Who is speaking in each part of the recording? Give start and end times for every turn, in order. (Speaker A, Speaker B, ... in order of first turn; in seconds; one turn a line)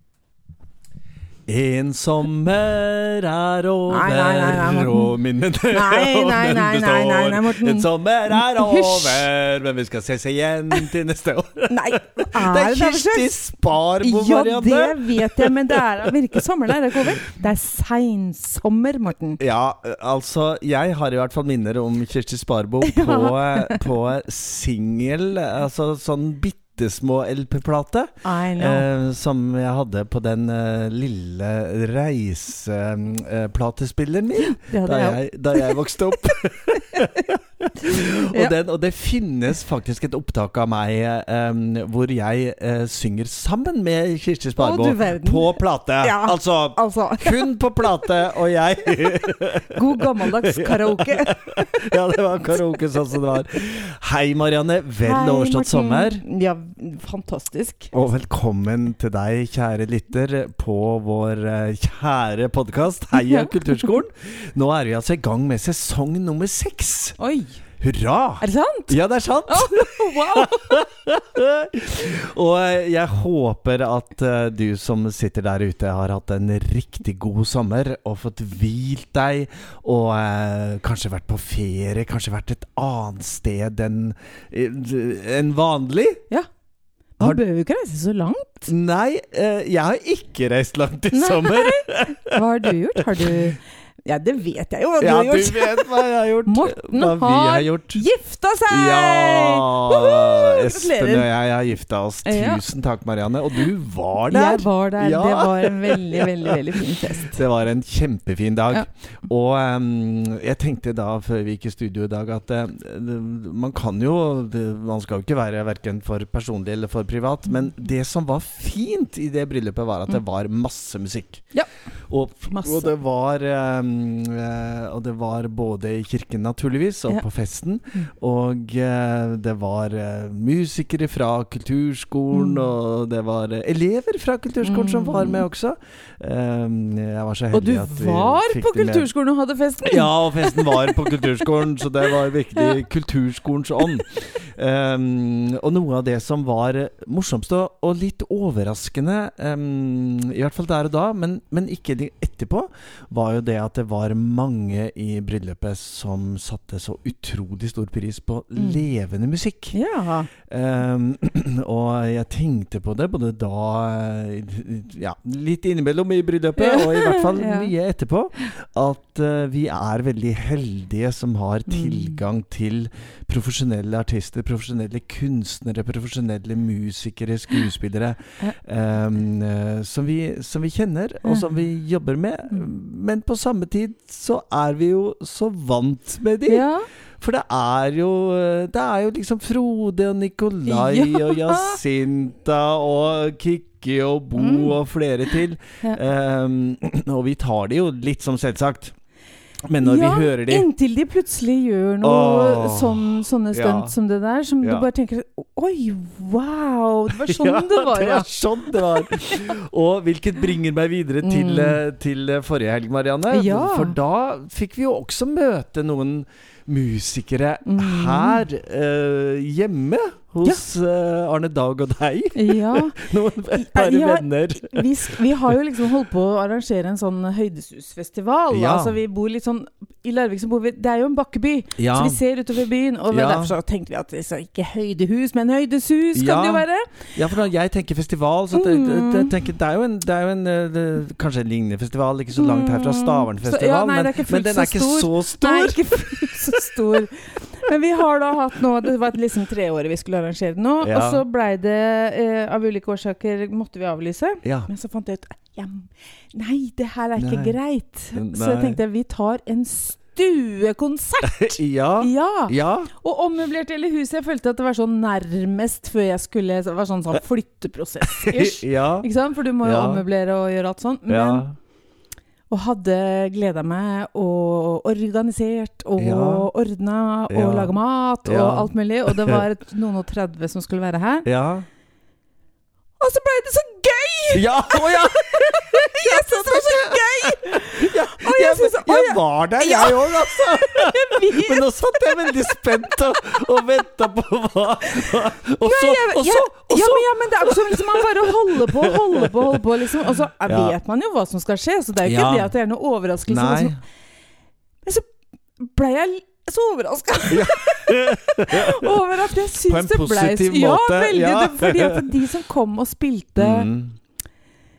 Speaker A: 1.5-17.0
Speaker B: 3.9-5.2
Speaker B: 5.7-9.3
Speaker B: 11.7-13.4
Speaker B: 14.0-19.4
Speaker A: 19.4-56.2
Speaker B: 22.8-23.8
Speaker B: 28.2-28.9
Speaker B: 34.4-38.5
Speaker B: 44.6-47.5
Speaker B: 49.6-51.8
Speaker B: 55.0-57.9
Speaker A: 57.9-67.2
Speaker B: 63.1-63.5
Speaker B: 67.2-67.6
Speaker A: 67.8-86.2
Speaker B: 68.4-69.0
Speaker B: 69.5-70.8
Speaker B: 87.2-88.7
Speaker A: 88.7-92.4
Speaker B: 91.1-101.3
Speaker A: 93.0-93.4
Speaker A: 95.0-98.0
Speaker A: 98.7-106.6
Speaker B: 102.2-102.6
Speaker B: 104.3-107.4
Speaker A: 107.3-121.5
Speaker A: 122.1-139.1
Speaker B: 122.5-123.0
Speaker B: 132.3-132.6
Speaker B: 134.6-135.4
Speaker B: 137.5-141.5
Speaker A: 139.8-159.8
Speaker B: 159.7-160.3
Speaker A: 160.4-186.7
Speaker B: 166.6-167.7
Speaker B: 171.7-172.2
Speaker B: 181.2-181.6
Speaker B: 186.5-186.9
Speaker A: 187.2-198.9
Speaker B: 190.7-191.8
Speaker B: 194.4-194.8
Speaker A: 199.7-200.7
Speaker B: 199.8-209.5
Speaker A: 202.0-203.9
Speaker A: 204.6-204.9
Speaker A: 207.1-225.5
Speaker B: 211.2-211.8
Speaker B: 213.3-214.0
Speaker B: 217.7-218.5
Speaker B: 222.3-237.1
Speaker A: 228.5-229.0
Speaker A: 231.8-232.2
Speaker A: 233.1-233.5
Speaker A: 236.2-246.8
Speaker B: 238.5-239.3
Speaker B: 242.4-271.5
Speaker A: 250.8-251.2
Speaker A: 254.4-254.7
Speaker A: 257.2-257.6
Speaker A: 258.1-258.8
Speaker A: 261.2-262.9
Speaker A: 268.1-269.1
Speaker A: 269.6-270.0
Speaker A: 271.1-271.6
Speaker B: 272.5-281.3
Speaker A: 276.0-276.5
Speaker A: 277.3-277.7
Speaker A: 278.2-279.4
Speaker A: 281.2-281.7
Speaker B: 283.0-292.5
Speaker A: 284.3-299.6
Speaker B: 295.1-303.8
Speaker A: 300.4-300.8
Speaker A: 302.0-302.5
Speaker A: 303.3-303.8
Speaker B: 305.6-313.7
Speaker A: 307.3-309.1
Speaker A: 309.6-312.1
Speaker A: 313.4-314.0